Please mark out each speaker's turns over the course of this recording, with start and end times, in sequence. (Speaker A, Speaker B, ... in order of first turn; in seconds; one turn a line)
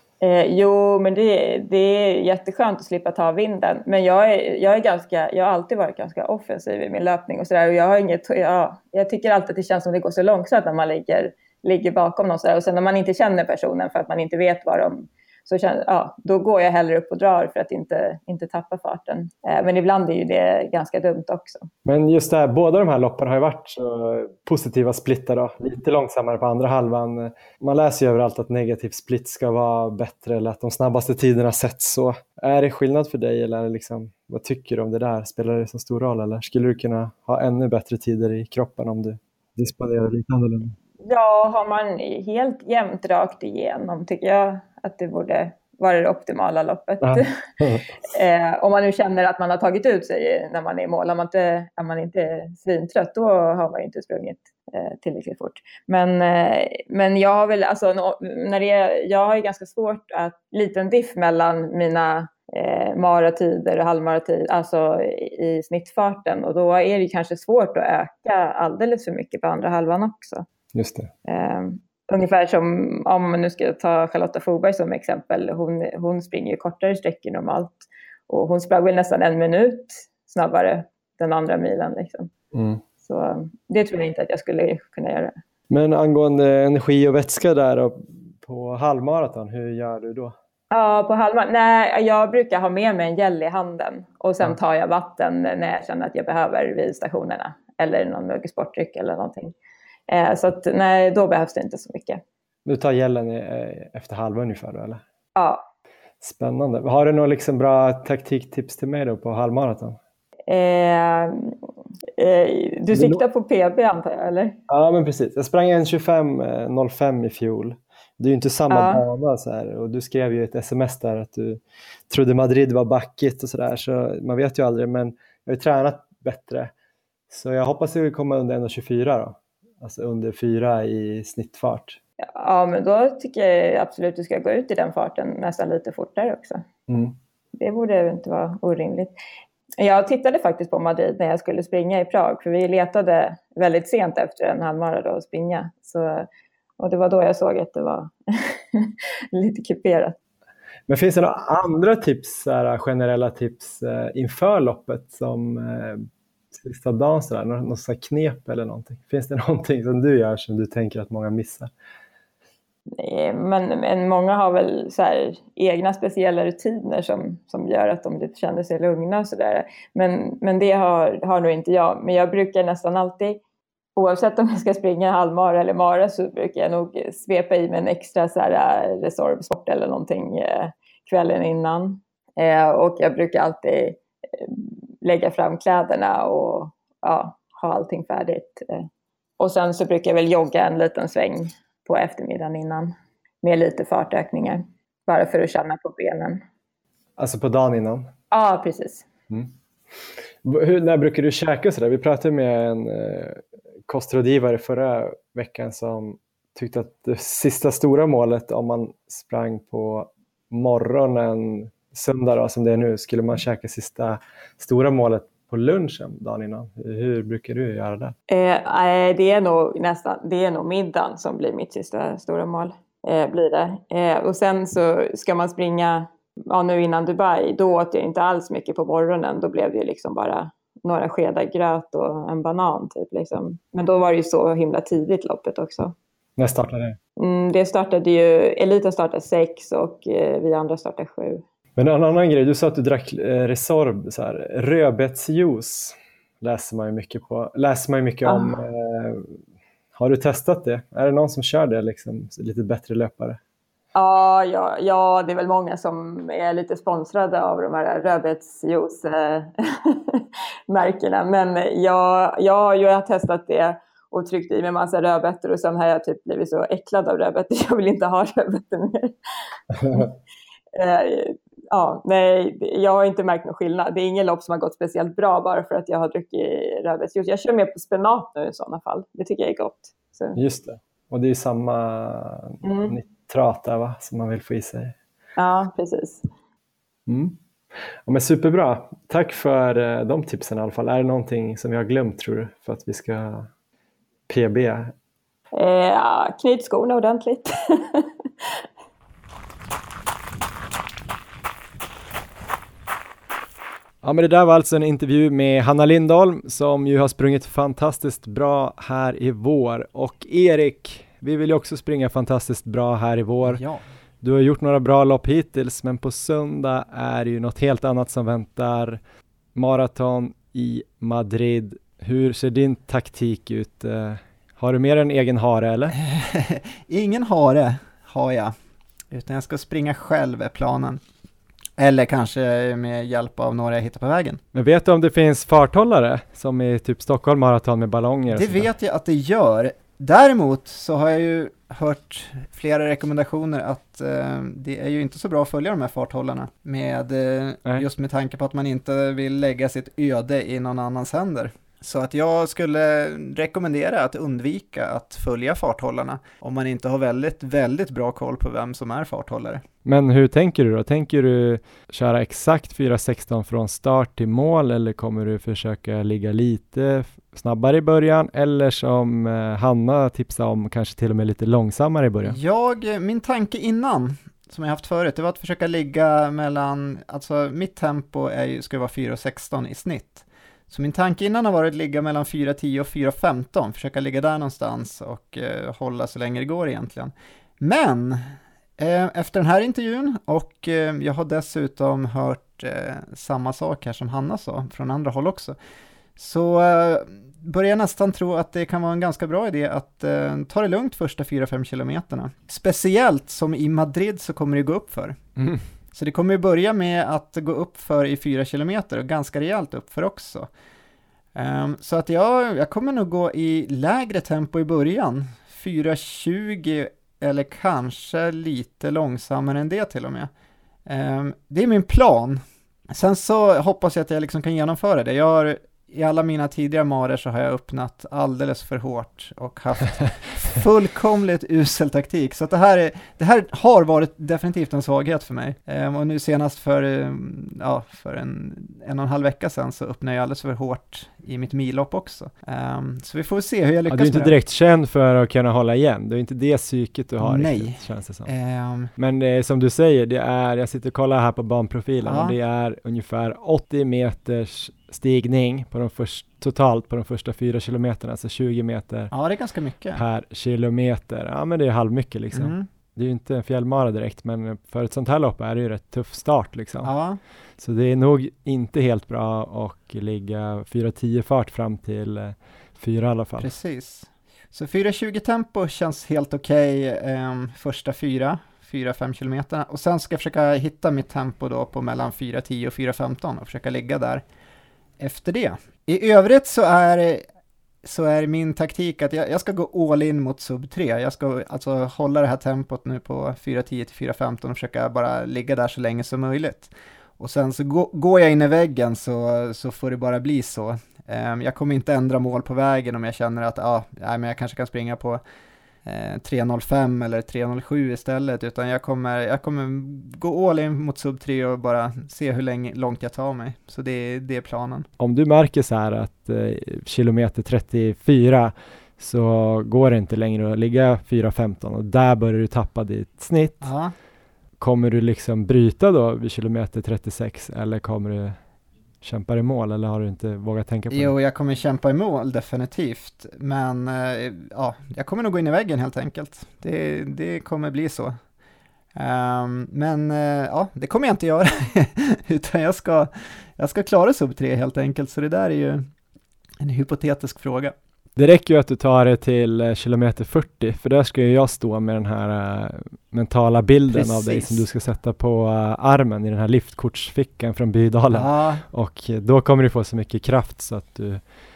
Speaker A: 0.2-21.7
Speaker B: 21.9-40.7
Speaker A: 41.0-47.3
Speaker B: 47.0-48.0
Speaker A: 48.0-70.4
Speaker B: 70.7-71.1
Speaker A: 71.2-82.3
Speaker B: 82.5-82.8
Speaker A: 83.0-85.3
Speaker B: 85.7-90.3
Speaker A: 90.7-99.5
Speaker A: 100.1-102.2
Speaker B: 102.7-105.0
Speaker A: 105.3-105.6
Speaker B: 106.2-110.0
Speaker A: 110.5-111.5
Speaker A: 112.2-114.5
Speaker B: 112.9-113.2
Speaker B: 114.7-126.7
Speaker A: 118.7-119.0
Speaker B: 127.3-132.0
Speaker A: 132.3-136.6
Speaker B: 136.9-137.2
Speaker A: 137.6-139.1
Speaker A: 139.8-146.3
Speaker A: 146.8-150.2
Speaker B: 150.9-161.7
Speaker A: 163.0-173.4
Speaker A: 173.9-188.9
Speaker A: 189.4-192.9
Speaker A: 193.4-196.4
Speaker B: 197.2-198.1
Speaker A: 198.3-199.0
Speaker B: 200.4-218.1
Speaker A: 218.3-235.9
Speaker B: 236.4-237.0
Speaker A: 237.2-241.4
Speaker B: 241.8-249.4
Speaker A: 248.2-248.6
Speaker B: 249.9-253.4
Speaker A: 253.9-269.1
Speaker B: 269.7-270.1
Speaker A: 270.7-280.4
Speaker B: 280.4-284.9
Speaker A: 282.6-282.9
Speaker A: 285.4-286.2
Speaker B: 287.1-287.4
Speaker B: 288.1-293.5
Speaker B: 294.3-294.9
Speaker A: 295.5-298.6
Speaker B: 304.0-313.6
Speaker C: 313.4-313.8
Speaker B: 314.2-319.0
Speaker B: 319.5-325.9
Speaker C: 325.9-328.6
Speaker C: 329.1-331.0
Speaker C: 331.8-334.4
Speaker B: 334.5-338.7
Speaker C: 338.3-359.6
Speaker B: 359.9-372.4
Speaker C: 372.2-395.6
Speaker C: 396.2-405.2
Speaker B: 405.4-405.6
Speaker C: 405.9-410.5
Speaker C: 411.4-420.3
Speaker C: 420.9-444.4
Speaker B: 443.9-448.3
Speaker C: 447.2-448.9
Speaker B: 448.9-459.1
Speaker C: 452.0-452.4
Speaker C: 459.1-460.0
Speaker B: 459.9-466.9
Speaker C: 462.3-462.6
Speaker C: 466.8-467.2
Speaker B: 467.6-473.5
Speaker C: 473.4-484.2
Speaker C: 485.0-487.2
Speaker C: 487.8-505.2
Speaker C: 505.9-514.9
Speaker B: 515.0-523.7
Speaker C: 523.6-523.9
Speaker B: 524.6-528.4
Speaker B: 529.0-531.1
Speaker C: 530.9-538.1
Speaker C: 538.9-545.9
Speaker C: 546.6-547.7
Speaker B: 548.1-561.2
Speaker C: 553.9-554.6
Speaker C: 558.1-558.6